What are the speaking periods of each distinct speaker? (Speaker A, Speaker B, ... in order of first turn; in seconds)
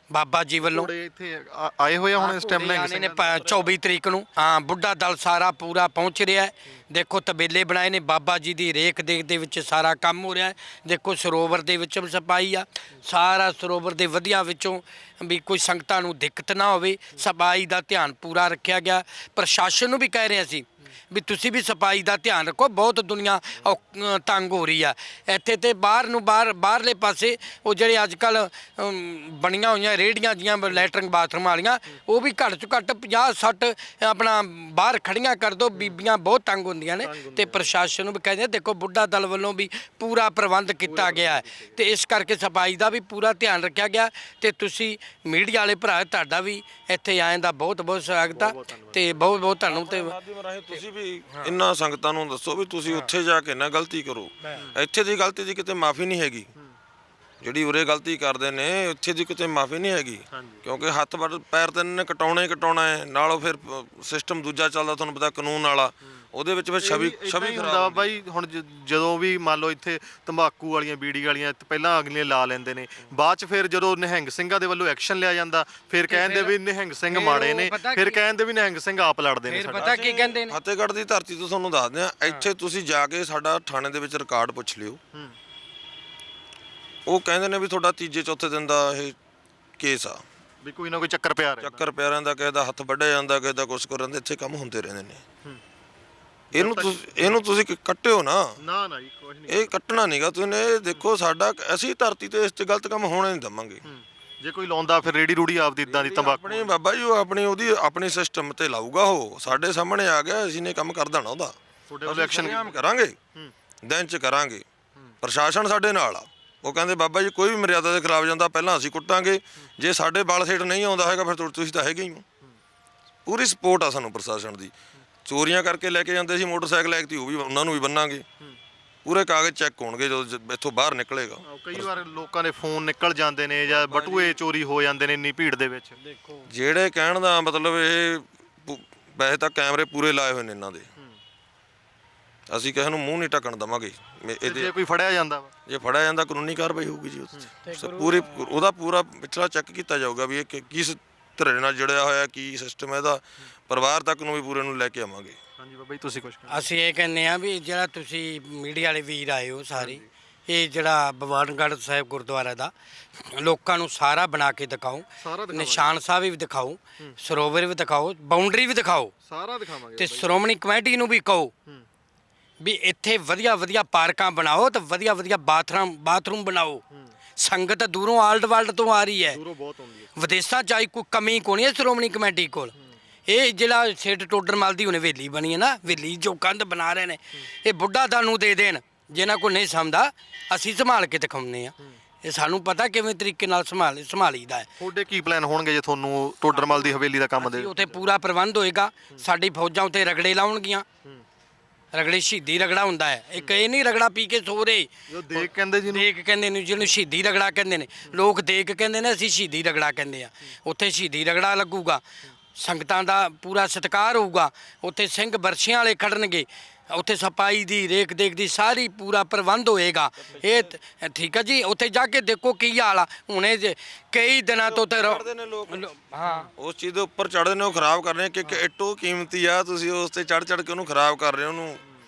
Speaker A: 0.1-0.9, 2.2-50.1, 50.7-51.6, 52.9-53.1, 54.4-54.7, 76.1-76.6, 77.1-78.2, 79.5-80.6, 136.1-136.5, 147.7-148.5, 156.5-169.1, 170.0-171.5, 172.6-176.8, 177.4-179.4, 180.2-182.7, 183.3-194.7, 196.5-200.9, 201.9-212.0, 212.6-226.5
Speaker B: 0.6-3.5, 37.0-37.6, 40.9-41.8, 48.3-49.2, 60.3-60.6, 66.8-80.0, 90.6-91.8, 96.5-97.4, 98.6-99.7, 103.8-106.7, 111.9-112.8, 131.5-136.0, 144.4-145.5, 155.6-156.7, 159.8-160.1, 165.2-165.9, 169.2-170.3, 179.3-180.3, 194.8-197.9, 205.1-206.1
Speaker C: 49.6-56.5, 57.4-68.2, 79.8-85.0, 87.1-89.2, 89.8-90.2, 91.6-95.2, 96.5-98.6, 99.5-103.8, 105.9-113.2, 113.8-114.7, 115.2-122.2, 123.3-124.7, 125.2-128.2, 129.1-131.9, 133.7-134.4, 136.4-140.9, 142.5-144.7, 145.7-155.4, 220.2-220.7, 224.6-225.8, 226.5-231.8